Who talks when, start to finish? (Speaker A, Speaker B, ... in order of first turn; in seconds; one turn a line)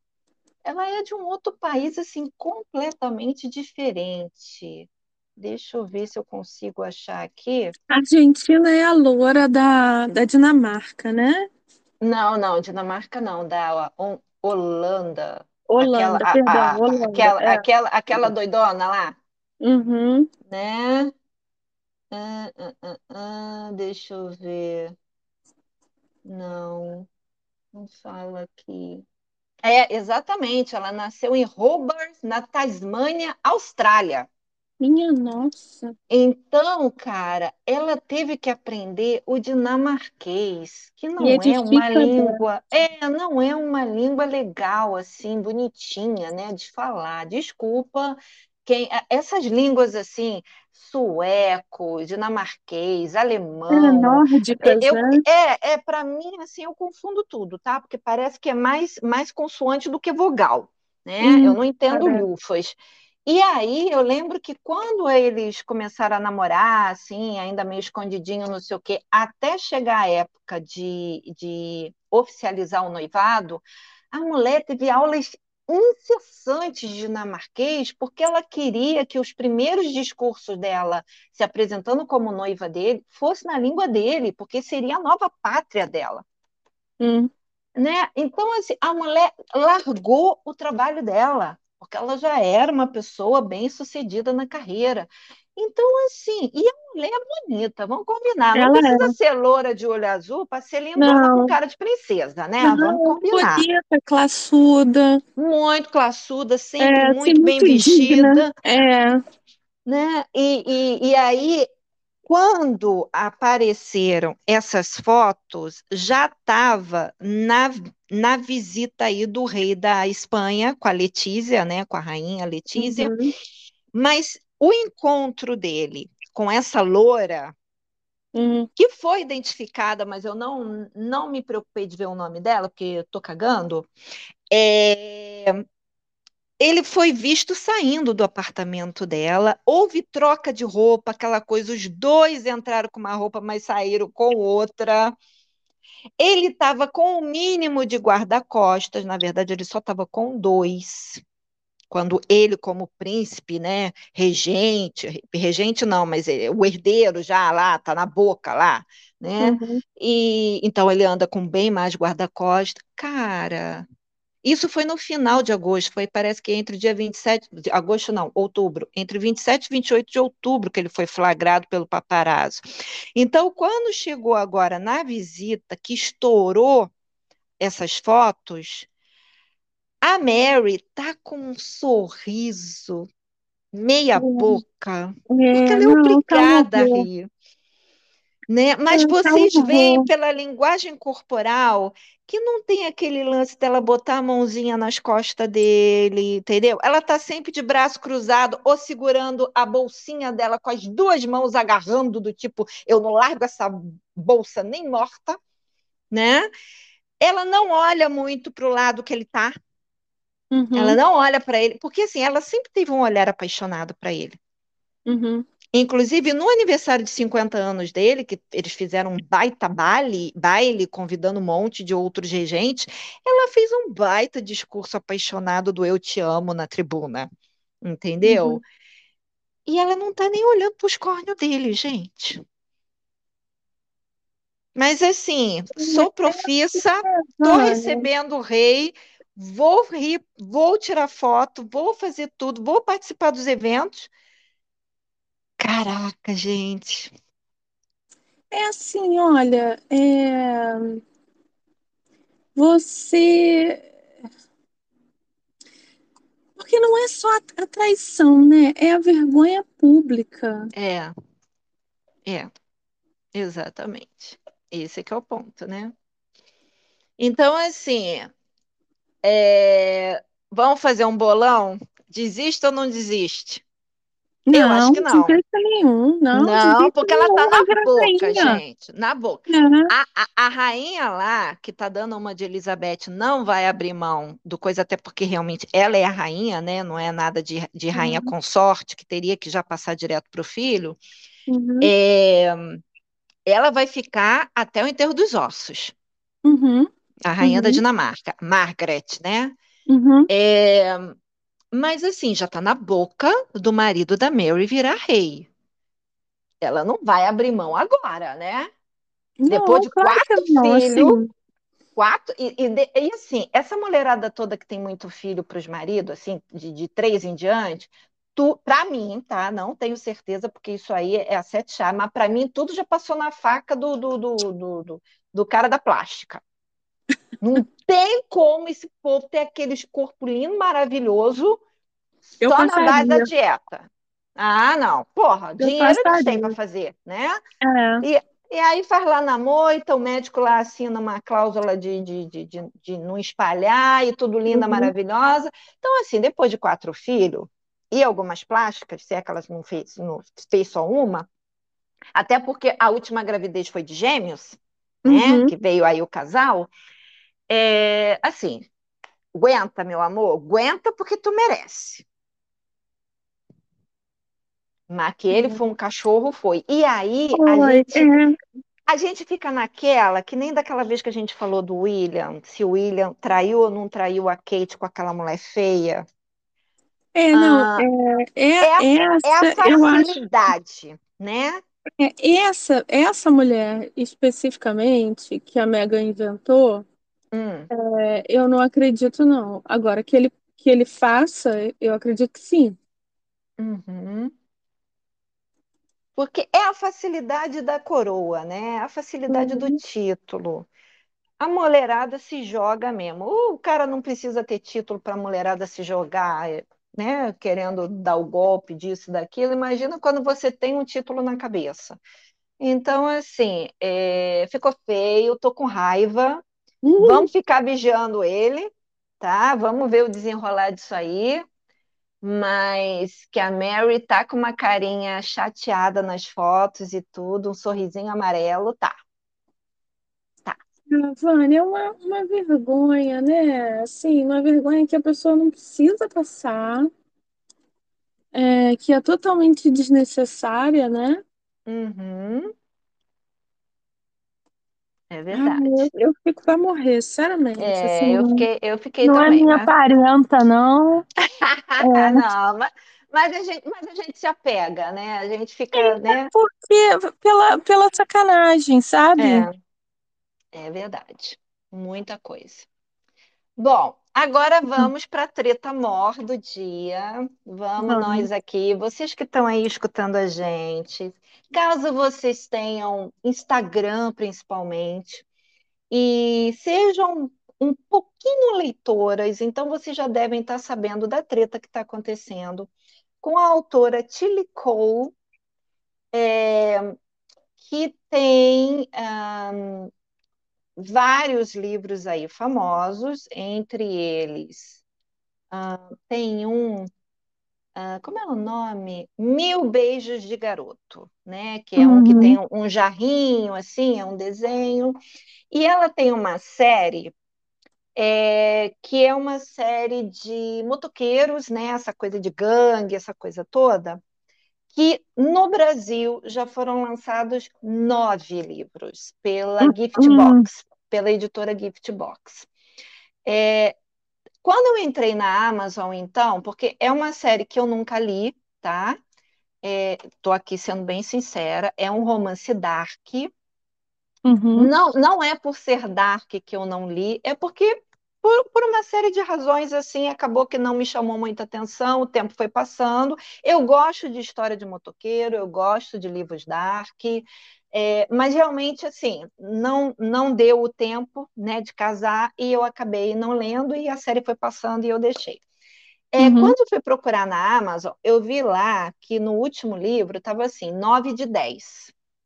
Speaker A: 0.7-7.7
Speaker B: 7.9-11.5
Speaker A: 12.0-19.2
Speaker B: 15.7-18.3
Speaker B: 19.6-20.3
Speaker A: 20.5-21.1
Speaker A: 22.1-24.9
Speaker A: 26.3-27.1
Speaker A: 27.7-29.1
Speaker A: 29.6-34.3
Speaker B: 34.8-35.9
Speaker A: 36.1-86.2
Speaker B: 41.2-42.4
Speaker B: 53.7-55.2
Speaker B: 61.2-62.3
Speaker B: 87.0-87.3
Speaker A: 87.8-103.7
Speaker B: 98.5-99.2
Speaker B: 101.0-101.5
Speaker B: 102.6-105.2
Speaker A: 105.4-108.5
Speaker B: 106.8-109.2
Speaker A: 109.9-111.7
Speaker A: 112.3-123.1
Speaker B: 122.8-123.3
Speaker A: 123.9-127.5
Speaker B: 128.3-128.7
Speaker A: 128.8-133.9
Speaker A: 134.5-135.6
Speaker A: 136.6-145.2
Speaker A: 146.2-151.2
Speaker A: 151.9-163.9
Speaker B: 159.4-159.8
Speaker A: 164.4-172.6
Speaker A: 173.2-176.9
Speaker A: 177.6-178.9
Speaker A: 180.0-183.1
Speaker A: 183.7-187.3
Speaker B: 184.2-184.6
Speaker B: 185.3-187.1
Speaker A: 188.5-205.4
Speaker B: 188.9-190.1
Speaker A: 206.1-206.5
Speaker A: 207.2-209.5
Speaker B: 210.5-211.0
Speaker A: 210.7-214.4
Speaker B: 215.1-215.4
Speaker A: 215.7-227.3
Speaker A: 227.8-228.6
Speaker B: 228.2-228.6
Speaker A: 229.7-232.4
Speaker A: 234.8-244.1
Speaker B: 235.8-238.1
Speaker A: 245.6-247.1
Speaker B: 248.5-251.0
Speaker B: 252.6-253.9
Speaker B: 256.6-260.7
Speaker A: 260.7-261.1
Speaker A: 263.3-265.9
Speaker A: 267.2-268.3
Speaker A: 269.2-273.6
Speaker B: 274.5-278.6
Speaker A: 274.5-275.4
Speaker A: 276.3-291.0
Speaker B: 279.5-279.9
Speaker B: 287.9-288.3
Speaker B: 291.5-291.9
Speaker A: 291.8-292.8
Speaker A: 293.5-295.9
Speaker B: 296.4-296.9
Speaker A: 297.2-299.5
Speaker B: 297.4-297.8
Speaker B: 299.9-300.3
Speaker A: 300.3-301.2
Speaker A: 301.7-305.5
Speaker A: 306.6-308.7
Speaker B: 309.4-311.3
Speaker A: 309.5-311.2
Speaker A: 312.0-326.4
Speaker A: 327.4-331.6
Speaker A: 332.4-337.4
Speaker B: 332.4-333.3
Speaker B: 335.6-336.5
Speaker B: 337.6-338.1
Speaker A: 338.0-351.3
Speaker B: 344.5-344.9
Speaker A: 352.1-356.7
Speaker B: 355.1-355.5
Speaker A: 357.5-358.7
Speaker A: 359.3-362.1
Speaker A: 364.9-368.1
Speaker B: 365.3-365.6
Speaker B: 367.3-368.4
Speaker A: 368.9-376.1
Speaker B: 377.1-380.2
Speaker A: 377.3-377.9
Speaker A: 378.6-381.6
Speaker B: 382.0-386.9
Speaker A: 387.3-387.7
Speaker B: 387.7-392.8
Speaker A: 393.6-394.3
Speaker A: 396.2-400.7
Speaker B: 399.3-399.7
Speaker A: 401.4-412.0
Speaker A: 412.6-416.4
Speaker B: 416.8-417.2
Speaker A: 417.0-421.4
Speaker A: 422.2-428.9
Speaker B: 430.9-436.9
Speaker B: 438.3-441.2
Speaker A: 441.7-442.5
Speaker A: 445.1-445.9
Speaker B: 445.3-448.5
Speaker A: 447.6-449.7
Speaker B: 449.0-451.1
Speaker A: 451.3-456.3
Speaker B: 451.8-452.2
Speaker B: 455.7-459.5
Speaker A: 459.2-459.5
Speaker A: 460.5-462.7
Speaker A: 463.6-475.2
Speaker B: 467.8-468.3
Speaker A: 475.9-482.7
Speaker A: 483.2-485.1
Speaker A: 486.1-487.0
Speaker A: 487.6-489.9
Speaker A: 490.8-494.8
Speaker A: 495.5-496.9
Speaker A: 497.8-505.0
Speaker B: 501.8-502.4
Speaker A: 505.5-507.1
Speaker A: 507.9-514.0
Speaker A: 514.7-522.5
Speaker B: 519.6-520.5
Speaker A: 523.2-523.8
Speaker A: 524.4-529.0
Speaker A: 529.6-533.3
Speaker B: 534.2-534.7
Speaker A: 534.6-555.4
Speaker A: 556.1-561.9
Speaker B: 556.2-556.5